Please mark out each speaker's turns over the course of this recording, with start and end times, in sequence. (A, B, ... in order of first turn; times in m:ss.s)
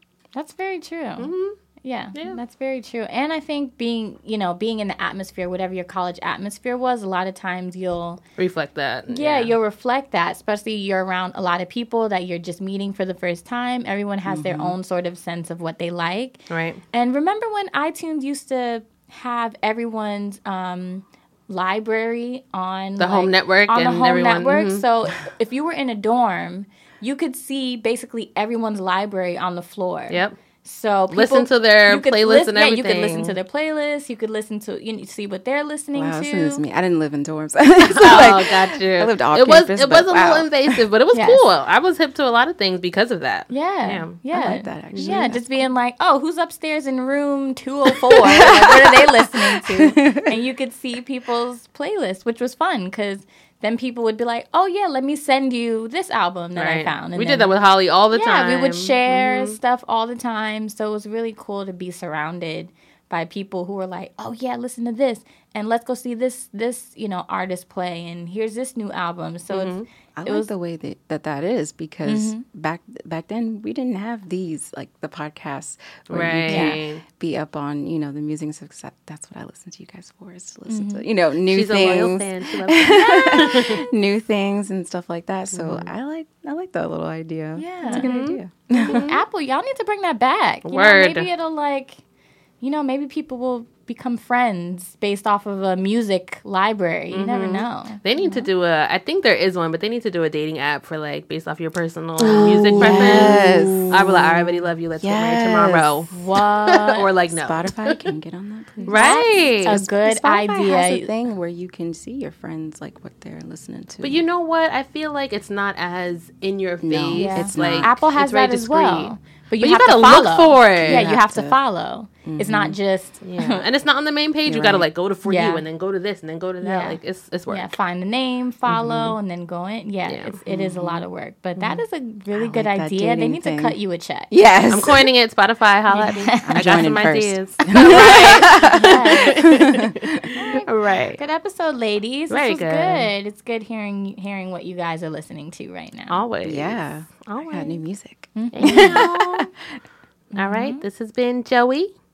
0:00.3-0:08.2 A
0:01.2-0:01.6 B
0:02.1-0:02.4 B
0:08.4-0:09.5 B
0:09.1-0:36.6 A
0:14.2-0:14.8 C
0:16.5-0:16.8 B
0:23.0-0:24.8 B
0:30.1-0:30.4 B
0:31.1-0:33.4 B
0:35.9-0:40.8 C
0:38.0-0:44.2 B
0:41.1-0:41.5 A
0:43.5-0:57.5 A
0:44.3-0:45.4 C
0:44.9-0:45.4 B
0:48.1-0:50.4 C
0:56.6-0:59.6 B
0:58.1-1:10.5 A
1:09.5-1:09.8 B
1:10.2-1:29.1 C
1:12.0-1:12.4 A
1:16.1-1:17.0 B
1:16.5-1:16.8 A
1:20.7-1:21.0 A
1:21.5-1:23.8 B
1:23.0-1:23.5 A
1:25.5-1:25.9 B
1:27.6-1:28.1 A
1:27.8-1:29.2 B
1:28.8-1:32.0 A
1:30.6-1:31.3 B
1:32.6-1:38.5 A
1:37.1-1:46.2 B
1:42.2-1:46.0 C
1:42.8-1:43.8 A
1:46.1-1:47.0 A
1:46.7-1:48.0 B
1:47.3-1:54.2 C
1:48.8-1:51.1 A
1:48.9-1:49.8 B
1:54.0-2:01.1 B
1:56.8-1:58.0 C
1:57.2-2:03.6 A
2:00.8-2:01.6 C
2:02.2-2:02.8 C
2:03.2-2:07.7 B
2:04.4-2:04.9 C
2:05.2-2:05.6 A
2:06.6-2:07.0 A
2:07.5-2:14.3 A
2:08.7-2:09.1 C
2:08.8-2:09.1 B
2:10.0-2:10.3 B
2:10.4-2:11.0 C
2:11.6-2:11.8 B
2:12.3-2:13.8 C
2:14.3-2:15.0 C
2:14.7-2:21.2 B
2:15.9-2:16.8 A
2:16.4-2:19.8 C
2:17.8-2:19.4 A
2:20.3-2:26.2 A
2:22.3-2:23.1 B
2:26.1-2:27.8 B
2:26.4-2:29.8 C
2:28.4-2:29.0 A
2:28.5-2:29.5 B
2:30.3-2:30.8 A
2:30.3-2:31.9 B